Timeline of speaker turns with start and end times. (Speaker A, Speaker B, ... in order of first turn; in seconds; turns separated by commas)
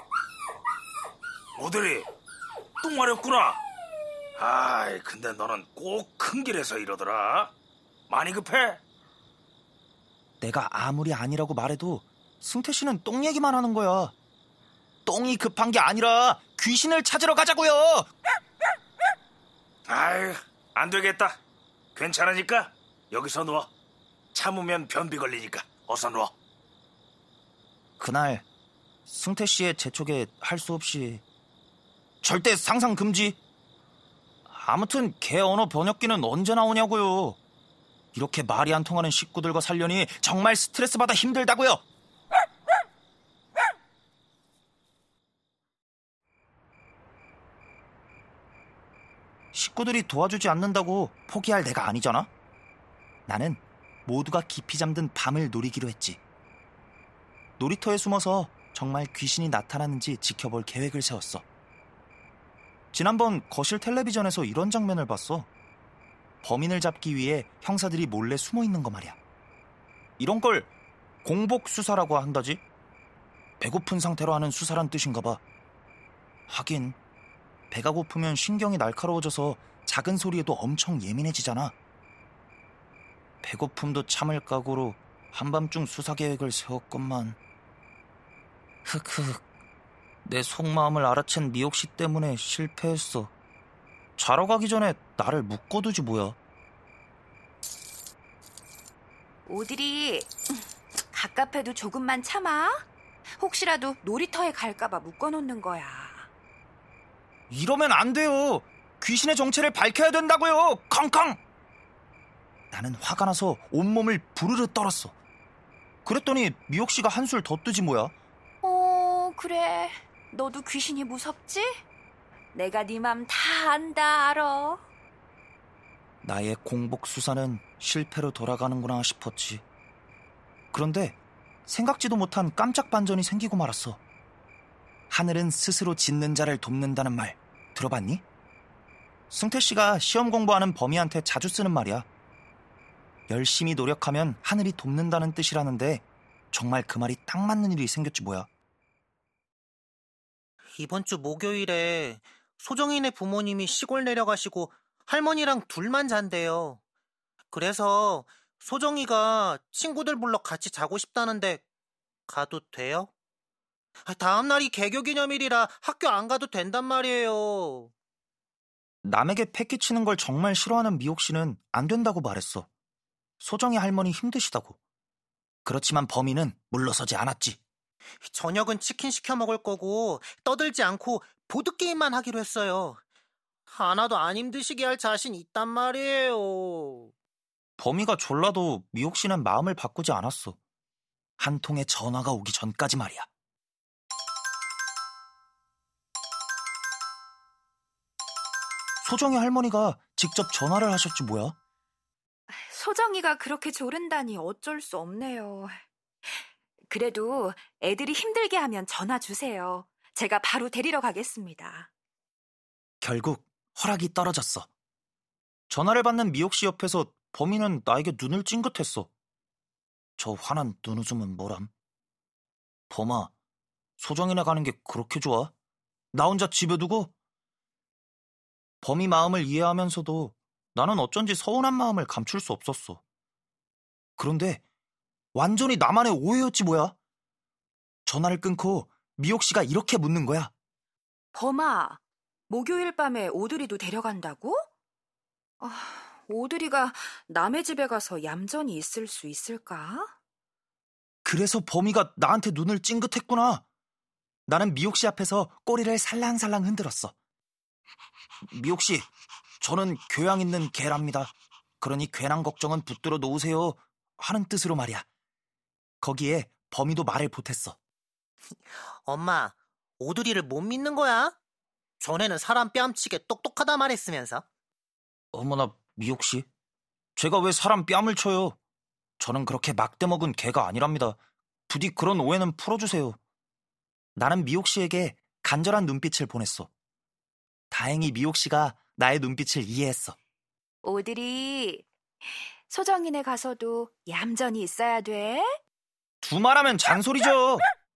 Speaker A: 1.6-2.1, Speaker A: 2.8-3.6, Speaker A: 4.4-7.5, Speaker A: 8.1-8.8, Speaker B: 10.4-14.1, Speaker B: 15.1-18.1, Speaker A: 19.9-21.4, Speaker A: 21.9-23.7, Speaker A: 24.3-26.3, Speaker B: 28.0-28.4, Speaker B: 29.1-31.2, Speaker B: 32.2-33.4, Speaker B: 34.5-37.4, Speaker B: 38.1-41.8, Speaker B: 49.5-52.3, Speaker B: 53.3-56.2, Speaker B: 57.6-61.4, Speaker B: 62.9-65.5, Speaker B: 66.4-69.2, Speaker B: 70.2-70.7, Speaker B: 71.2-72.6, Speaker B: 73.6-75.4, Speaker B: 76.5-77.0, Speaker B: 77.7-81.7, Speaker B: 83.4-87.4, Speaker B: 88.8-89.4, Speaker B: 90.2-93.3, Speaker B: 94.2-96.4, Speaker C: 99.5-102.8, Speaker C: 103.4-106.3, Speaker B: 107.5-111.4, Speaker B: 112.7-115.1, Speaker B: 116.0-118.1, Speaker C: 118.6-121.7, Speaker C: 122.5-124.8, Speaker B: 126.2-129.6, Speaker B: 130.7-134.0, Speaker B: 135.1-138.2, Speaker B: 139.3-142.1, Speaker B: 143.3-148.5, Speaker D: 150.7-156.8, Speaker D: 157.5-161.6, Speaker D: 162.3-163.1, Speaker D: 164.1-167.9, Speaker B: 169.0-172.7, Speaker B: 173.4-174.8, Speaker B: 175.6-177.6, Speaker D: 178.2-183.0, Speaker D: 183.7-187.1, Speaker B: 187.8-190.6, Speaker B: 191.4-193.3, Speaker B: 199.0-201.5, Speaker C: 202.5-205.7, Speaker C: 206.3-211.9, Speaker B: 213.0-214.7, Speaker B: 215.7-219.1, Speaker B: 220.2-221.7, Speaker B: 222.9-223.3, Speaker B: 224.0-225.5, Speaker B: 226.1-227.1, Speaker B: 228.8-233.0, Speaker B: 234.2-234.6, Speaker B: 235.3-236.9, Speaker B: 238.1-240.5, Speaker C: 241.3-244.6, Speaker C: 245.6-250.1, Speaker B: 251.2-253.6, Speaker B: 254.5-257.1, Speaker B: 258.4-259.1, Speaker B: 259.6-265.1, Speaker B: 266.0-267.8, Speaker D: 268.8-271.4, Speaker D: 272.0-274.4, Speaker B: 275.3-276.5, Speaker B: 277.1-278.6, Speaker B: 279.2-281.2, Speaker B: 281.7-283.2, Speaker B: 284.1-286.7, Speaker B: 287.7-290.2, Speaker C: 290.8-295.5, Speaker B: 296.2-297.6